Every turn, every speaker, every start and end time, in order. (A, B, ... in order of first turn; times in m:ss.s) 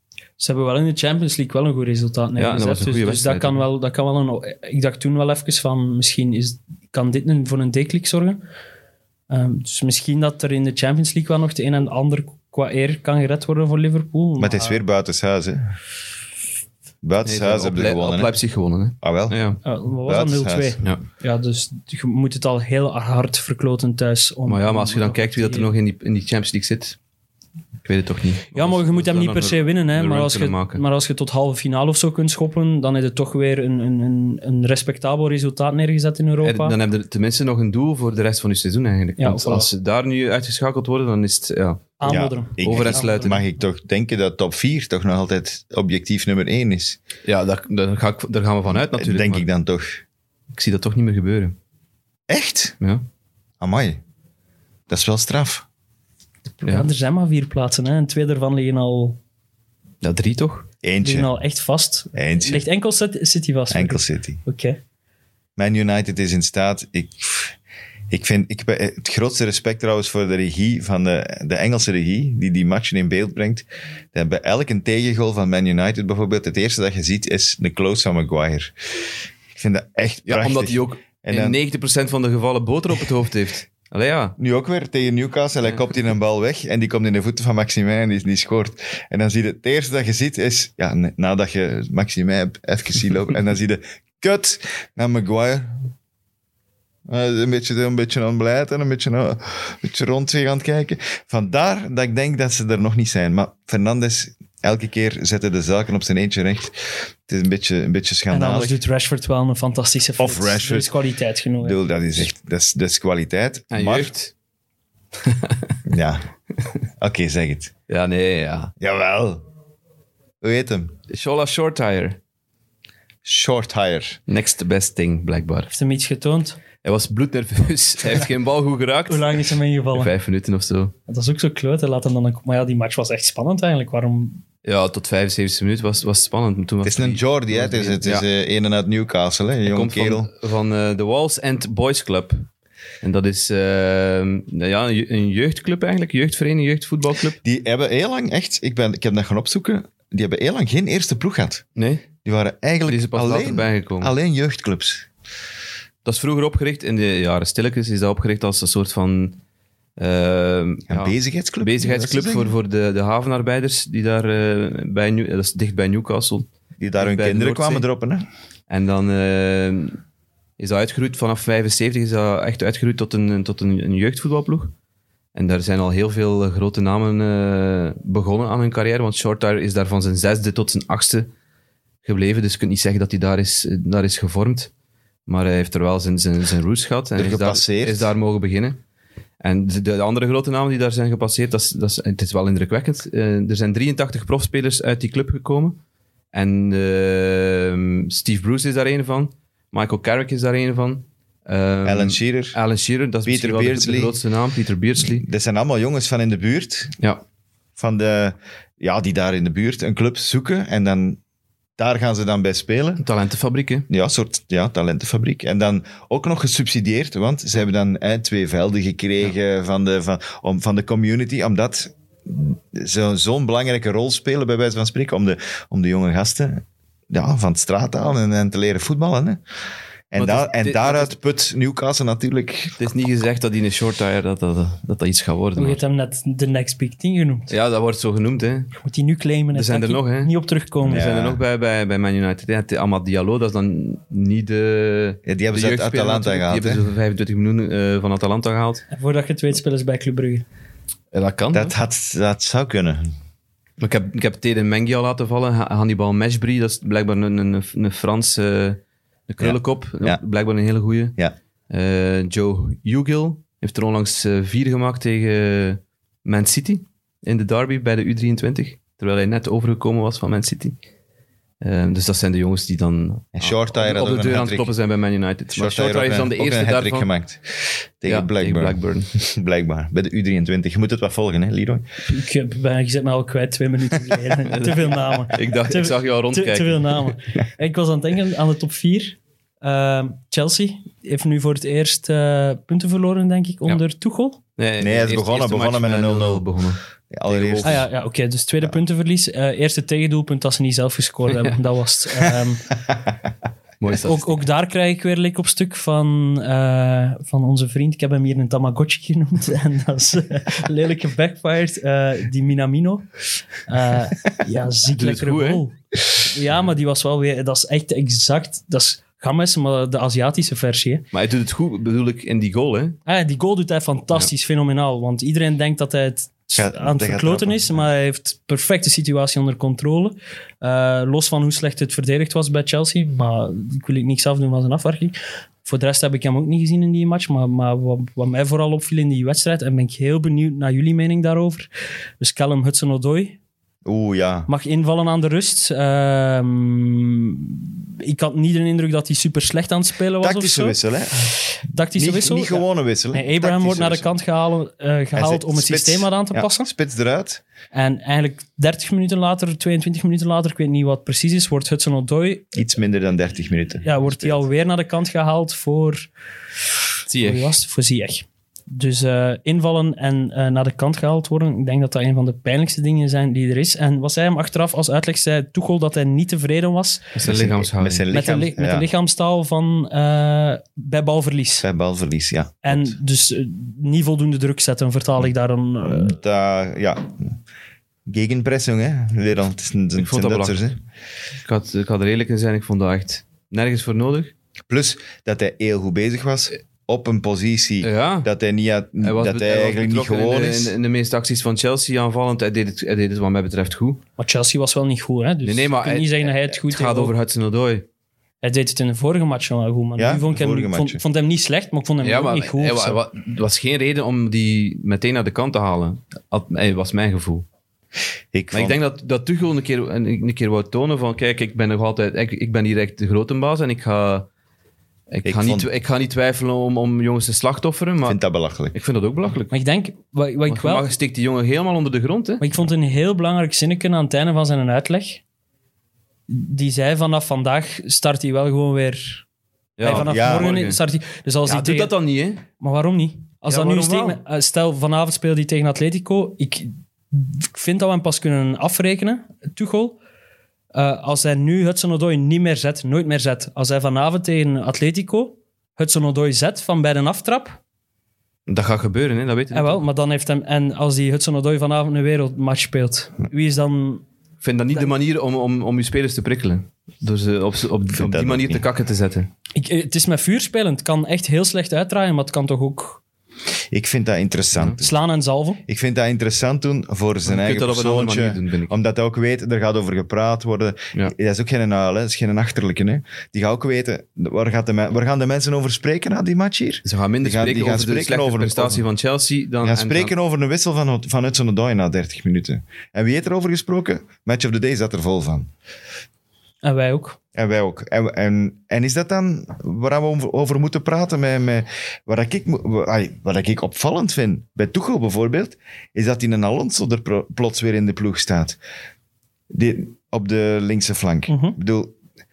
0:00.4-0:08.4 A
0:02.4-0:03.6 B
0:09.3-0:14.8 A
0:14.4-0:15.8 C
0:17.0-0:18.4 C
0:17.2-0:19.6 B
0:19.0-0:19.4 C
0:19.6-0:25.7 A
0:20.1-0:20.8 C
0:24.5-0:27.0 B
0:27.8-0:30.8 B
0:28.5-0:36.8 A
0:36.4-0:41.9 B
0:39.2-0:39.7 A
0:42.0-0:43.4 A
0:42.0-0:47.0 C
0:42.6-0:43.4 B
0:47.2-0:49.4 B
0:48.7-0:50.0 C
0:50.5-0:51.6 B
0:52.3-0:52.8 C
0:53.6-0:54.0 C
0:54.9-0:55.6 C
0:56.6-0:59.2 A
1:00.0-1:00.7 B
1:00.8-1:01.3 C
1:01.0-1:04.8 A
1:02.2-1:02.6 C
1:03.7-1:04.4 C
1:05.6-1:07.6 C
1:08.1-1:18.7 C
1:19.5-1:21.6 C
1:20.3-1:24.4 B
1:24.4-1:35.9 C
1:37.1-1:48.8 C
1:48.3-1:52.2 A
1:50.2-1:50.9 C
1:51.6-1:54.1 C
1:53.7-1:54.3 B
1:55.2-1:55.8 B
1:55.9-1:56.3 C
1:57.0-1:57.7 C
1:57.9-1:58.7 B
1:58.8-1:59.4 C
2:00.4-2:01.0 C
2:01.1-2:02.2 B
2:03.2-2:04.2 C
2:04.3-2:05.7 B
2:05.7-2:06.6 A
2:06.8-2:09.4 B
2:09.1-2:10.1 A
2:09.9-2:10.9 B
2:11.1-2:14.4 A
2:14.6-2:18.2 B
2:16.8-2:20.3 C
2:19.6-2:22.5 B
2:23.0-2:27.4 B
2:27.4-2:31.6 C
2:31.8-2:32.1 B
2:32.2-2:35.1 C
2:32.9-2:34.1 B
2:36.0-2:39.4 B
2:40.0-2:47.8 B
2:40.9-2:42.5 C
2:46.8-2:48.2 C
2:48.7-2:50.0 B
2:50.6-2:54.7 B
2:55.4-3:01.3 B
3:02.0-3:04.7 B
3:05.3-3:08.8 B
3:07.2-3:08.1 C
3:09.4-3:15.8 B
3:16.3-3:25.2 B
3:21.8-3:22.6 C
3:23.2-3:24.2 C
3:25.0-3:27.0 C
3:27.8-3:31.2 C
3:31.8-3:33.0 C
3:33.0-3:33.9 B
3:33.9-3:49.4 C
3:50.1-3:52.8 C
3:50.2-3:51.1 B
3:52.8-3:55.8 B
3:55.6-3:57.5 A
3:57.5-3:58.7 B
3:58.7-4:01.0 A
3:59.5-4:08.8 B
4:00.9-4:01.4 C
4:05.3-4:06.8 C
4:08.9-4:10.4 A
4:11.1-4:11.7 B
4:11.5-4:13.1 C
4:13.8-4:21.2 B
4:19.4-4:20.2 C
4:21.7-4:30.8 B
4:31.6-4:37.1 B
4:33.4-4:34.7 C
4:35.6-4:41.8 C
4:38.1-4:39.1 B
4:42.1-4:54.4 A
4:44.5-4:47.1 B
4:54.6-4:57.8 B
4:54.8-4:56.5 C
4:57.1-4:57.9 C
4:57.6-5:02.7 A
5:01.3-5:01.6 B
5:03.8-5:04.4 B
5:04.0-5:21.1 A
5:14.9-5:15.6 B
5:21.1-5:23.0 B
5:23.1-5:41.7 A
5:26.6-5:27.9 C
5:42.2-5:43.4 A
5:43.8-5:44.5 C
5:44.5-5:50.8 A
5:50.2-5:51.4 C
5:51.4-5:56.7 A
5:51.9-5:54.1 C
5:55.1-5:57.4 C
5:57.7-6:02.6 A
6:02.5-6:04.4 C
6:03.8-6:06.1 A
6:07.1-6:07.6 B
6:07.2-6:17.1 A
6:17.2-6:18.1 B
6:17.2-6:18.9 C
6:18.1-6:21.7 A
6:21.6-6:22.9 C
6:22.6-6:26.2 A
6:25.9-6:27.4 C
6:28.1-6:30.8 C
6:30.0-6:30.7 B
6:31.4-6:34.3 B
6:34.7-6:40.8 C
6:37.8-6:38.3 B
6:39.0-6:44.0 B
6:44.2-6:47.1 A
6:45.4-6:47.9 B
6:48.4-6:53.0 A
6:50.0-6:51.0 C
6:52.0-6:57.5 B
6:58.3-6:58.8 C
6:58.5-7:04.3 B
7:05.1-7:09.5 B
7:05.2-7:05.7 C
7:08.0-7:08.7 C
7:09.5-7:10.9 A
7:10.5-7:12.5 B
7:12.4-7:15.2 A
7:16.3-7:19.2 A
7:19.8-7:20.8 B
7:19.8-7:21.9 A
7:19.9-7:20.5 C
7:21.5-7:22.4 B
7:22.6-7:30.0 A
7:23.5-7:24.2 B
7:30.7-7:37.6 A
7:38.5-7:39.8 B
7:39.5-7:44.0 A
7:44.4-7:49.3 B
7:47.9-7:48.6 C
7:49.6-7:53.0 A
7:53.7-7:54.9 C
7:54.8-7:55.6 A
7:55.7-8:08.8 C
7:57.2-7:58.8 B
8:06.9-8:10.1 B
8:09.6-8:15.5 C
8:16.6-8:17.2 A
8:17.4-8:28.6 C
8:29.5-8:32.0 C
8:31.3-8:31.6 A